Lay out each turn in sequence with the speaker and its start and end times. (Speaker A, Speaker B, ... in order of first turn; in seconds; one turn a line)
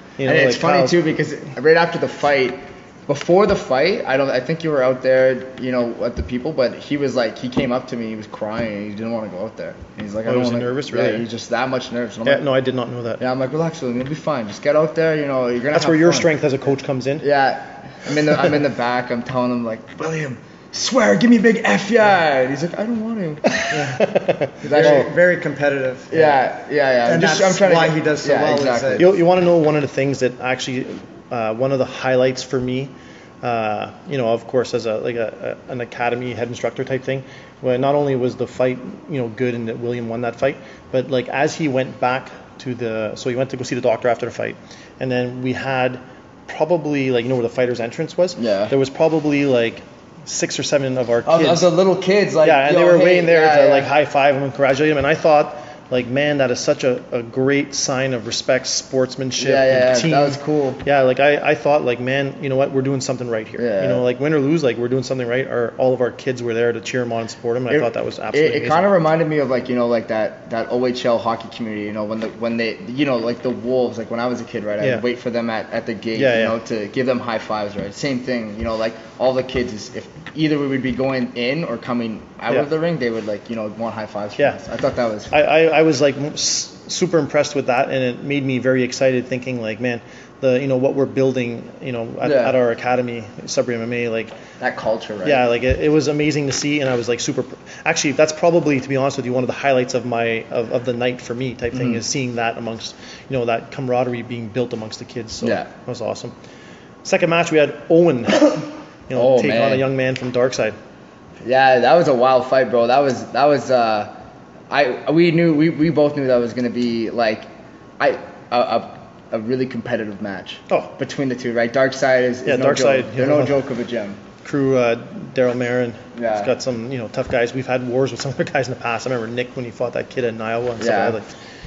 Speaker A: 0.2-1.0
Speaker B: 0.2-12.4
Speaker A: 10.2-11.3
Speaker A: 12.2-13.2
Speaker B: 13.2-16.3
Speaker A: 15.7-17.3
Speaker B: 17.2-24.0
Speaker A: 23.5-25.1
Speaker C: 24.6-26.4
Speaker B: 24.6-25.1
Speaker B: 26.1-29.1
Speaker C: 27.1-29.1
Speaker A: 29.0-51.7
Speaker B: 48.4-48.7
Speaker B: 51.2-53.9
Speaker A: 52.4-68.9
Speaker B: 59.4-60.8
Speaker B: 63.6-64.0
Speaker B: 67.7-85.3
Speaker A: 76.2-76.5
Speaker A: 85.3-94.3
Speaker B: 92.2-92.6
Speaker B: 94.6-95.5
Speaker A: 95.2-106.3
Speaker B: 101.7-102.0
Speaker B: 105.4-105.7
Speaker A: 107.0-110.8
Speaker B: 109.1-109.9
Speaker B: 111.4-114.2
Speaker B: 114.7-124.2
Speaker A: 120.7-121.0
Speaker A: 122.5-123.6
Speaker A: 124.4-131.3
Speaker B: 126.2-126.5
Speaker B: 130.8-131.2